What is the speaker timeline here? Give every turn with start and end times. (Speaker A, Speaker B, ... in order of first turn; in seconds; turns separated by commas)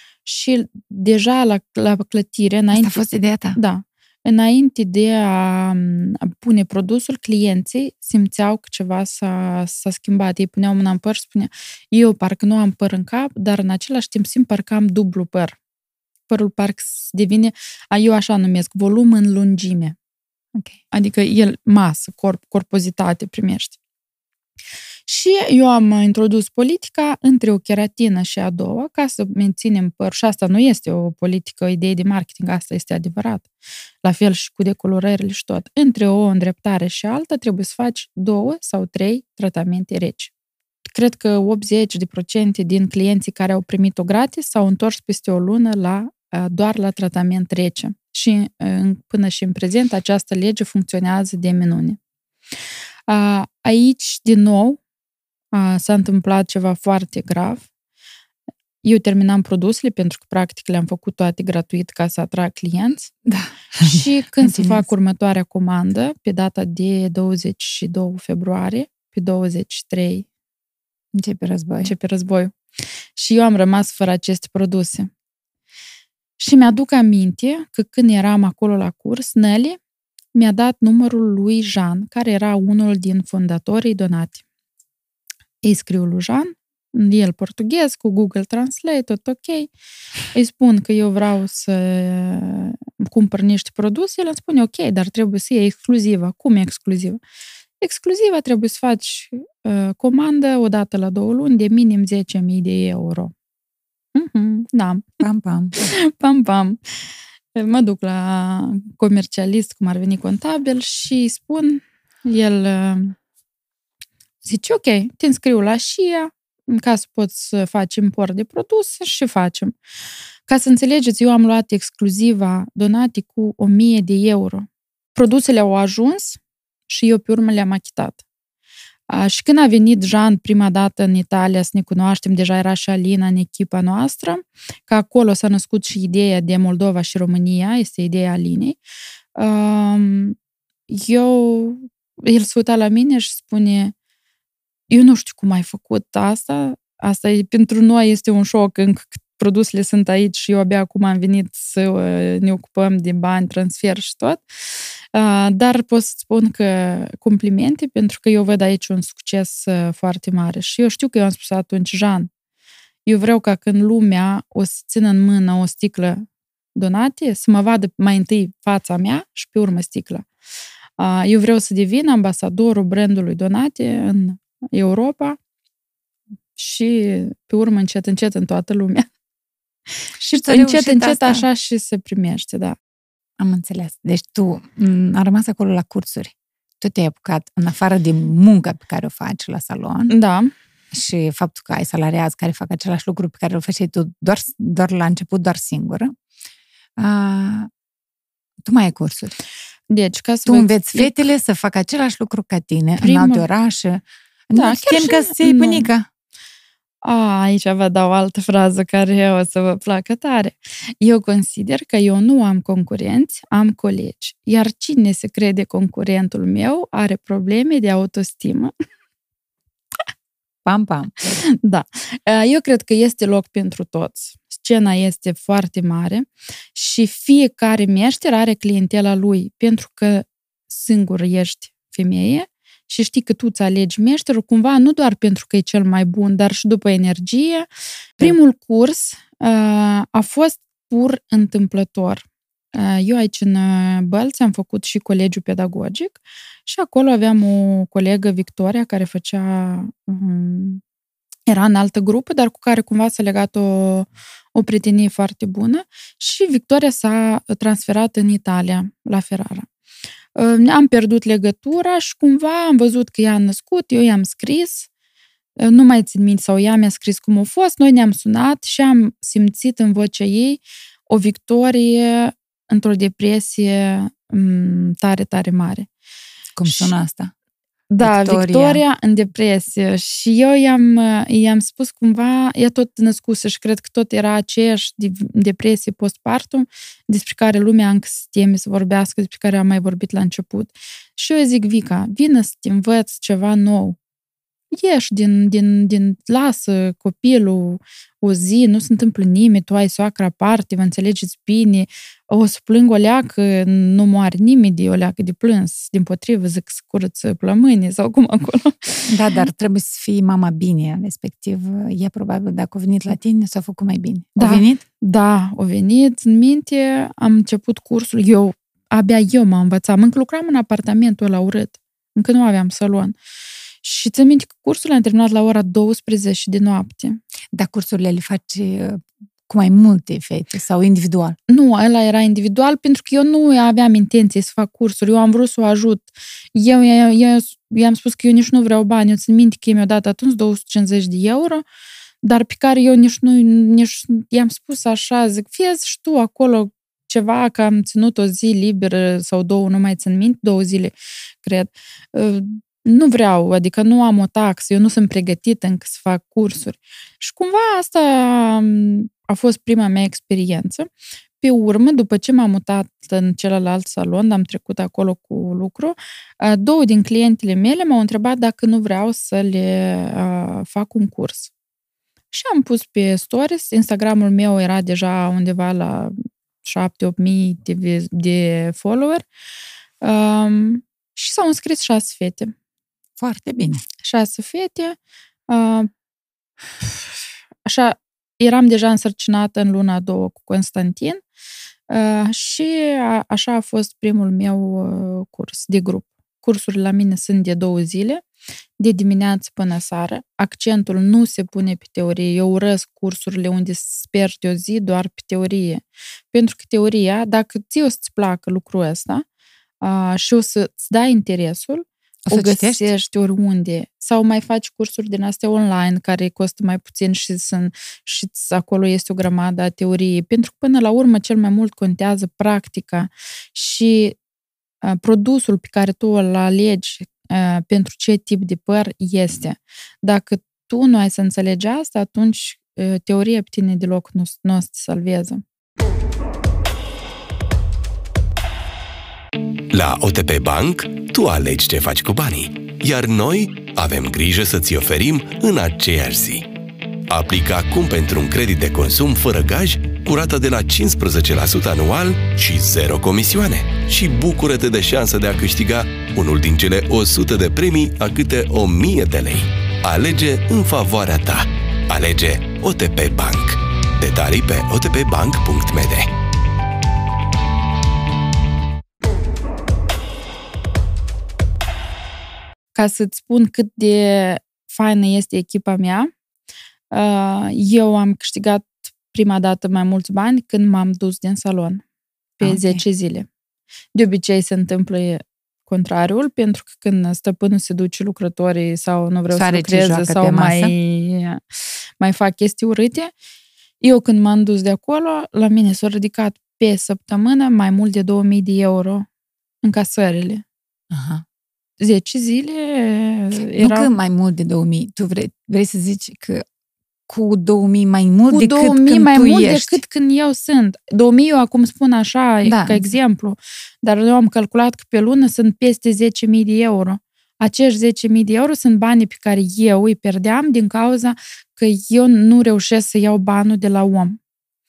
Speaker A: 0.2-3.0, Speaker B: 2.7-3.6, Speaker A: 3.5-15.6, Speaker A: 16.3-19.9, Speaker A: 20.9-23.8, Speaker A: 25.1-33.5, Speaker A: 34.0-40.3, Speaker A: 40.9-52.0, Speaker A: 53.1-54.8, Speaker A: 55.5-57.7, Speaker A: 58.8-63.1, Speaker B: 63.2-64.8, Speaker A: 63.8-70.2, Speaker B: 71.1-71.9, Speaker A: 71.8-72.5, Speaker A: 73.2-75.1, Speaker A: 76.4-79.8, Speaker A: 80.3-84.4, Speaker A: 85.6-89.7, Speaker A: 90.3-97.2, Speaker A: 97.8-103.3, Speaker A: 104.1-105.2, Speaker B: 105.2-105.9, Speaker A: 105.8-106.8, Speaker A: 107.5-113.2, Speaker A: 114.4-119.8, Speaker A: 120.5-128.2, Speaker A: 129.1-138.8, Speaker A: 139.3-140.4, Speaker A: 140.9-143.9, Speaker A: 144.9-154.4, Speaker A: 155.1-162.3, Speaker A: 163.1-170.3, Speaker A: 171.0-175.4, Speaker A: 176.6-179.1, Speaker B: 180.2-181.4, Speaker A: 180.2-182.8, Speaker B: 183.4-190.1, Speaker A: 190.1-190.5, Speaker B: 190.9-196.1, Speaker B: 197.0-197.7, Speaker B: 198.6-199.3, Speaker A: 199.9-201.2, Speaker B: 200.4-206.0, Speaker A: 203.0-203.5, Speaker A: 204.5-205.9, Speaker A: 207.0-218.7, Speaker B: 220.6-221.4, Speaker A: 221.5-237.7, Speaker A: 238.2-250.8, Speaker A: 251.5-259.7, Speaker A: 260.3-264.9, Speaker A: 265.6-275.9, Speaker B: 276.6-277.3, Speaker A: 276.6-276.9, Speaker A: 277.9-294.0, Speaker B: 278.0-278.8, Speaker A: 294.7-309.4, Speaker B: 309.1-314.8, Speaker A: 314.4-323.1, Speaker A: 323.8-327.2, Speaker B: 327.5-331.4, Speaker A: 331.5-341.6, Speaker A: 342.2-371.5, Speaker A: 372.3-379.2, Speaker A: 380.0-382.5, Speaker B: 383.2-383.8, Speaker A: 384.0-385.0, Speaker A: 385.5-385.9, Speaker A: 387.6-391.2, Speaker A: 391.9-398.2, Speaker A: 398.8-409.2, Speaker A: 409.8-424.2, Speaker B: 412.3-412.9, Speaker A: 424.8-435.4, Speaker C: 439.7-446.4, Speaker C: 447.1-466.1, Speaker A: 472.7-476.1, Speaker A: 476.9-481.8, Speaker A: 482.4-483.3, Speaker B: 482.4-482.8, Speaker A: 483.9-491.4, Speaker B: 489.3-490.7, Speaker A: 492.0-493.1, Speaker A: 493.8-499.1, Speaker A: 499.6-500.4, Speaker B: 500.9-501.2, Speaker A: 501.8-503.9, Speaker B: 503.5-506.4, Speaker B: 507.1-509.8, Speaker A: 508.3-524.2, Speaker B: 512.4-512.8